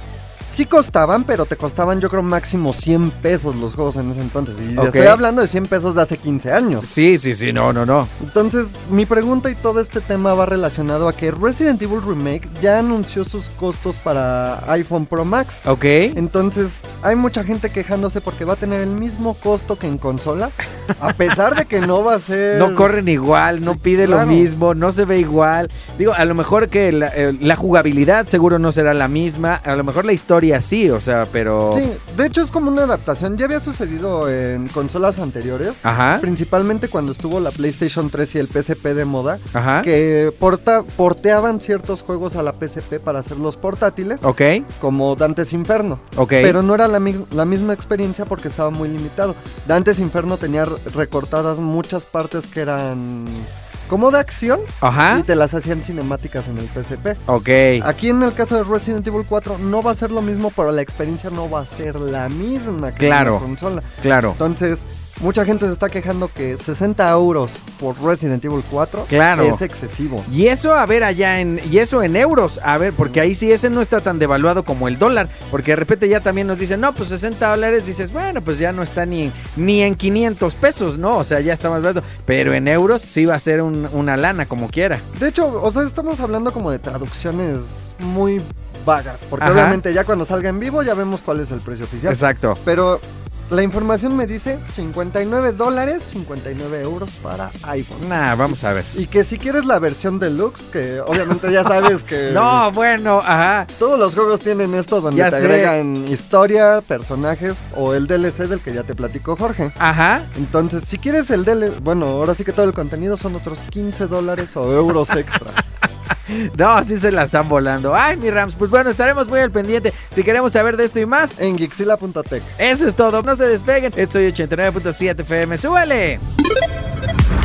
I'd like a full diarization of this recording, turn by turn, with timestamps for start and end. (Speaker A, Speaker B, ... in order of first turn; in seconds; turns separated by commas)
Speaker A: 0.5-6.9, Speaker B: 4.8-5.2, Speaker B: 6.8-8.1, Speaker A: 8.2-22.9, Speaker B: 15.6-16.2, Speaker B: 22.5-31.8, Speaker A: 23.6-24.5, Speaker A: 31.7-44.2, Speaker B: 35.8-36.2, Speaker B: 39.5-39.9, Speaker B: 44.2-44.6, Speaker A: 44.8-57.2, Speaker B: 46.1-46.6, Speaker B: 54.8-55.2, Speaker B: 57.3-57.8, Speaker A: 57.8-63.8, Speaker B: 63.0-63.4, Speaker B: 64.0-64.4, Speaker A: 64.3-70.3, Speaker B: 69.1-69.6, Speaker B: 70.3-85.0, Speaker A: 85.1-102.7, Speaker B: 89.4-89.8, Speaker B: 92.1-92.6, Speaker B: 98.0-98.9, Speaker B: 102.2-103.7, Speaker A: 103.8-109.8, Speaker B: 105.1-105.7, Speaker B: 109.8-110.3, Speaker A: 110.3-115.5, Speaker B: 116.1-121.4, Speaker A: 121.4-122.5, Speaker B: 122.6-126.2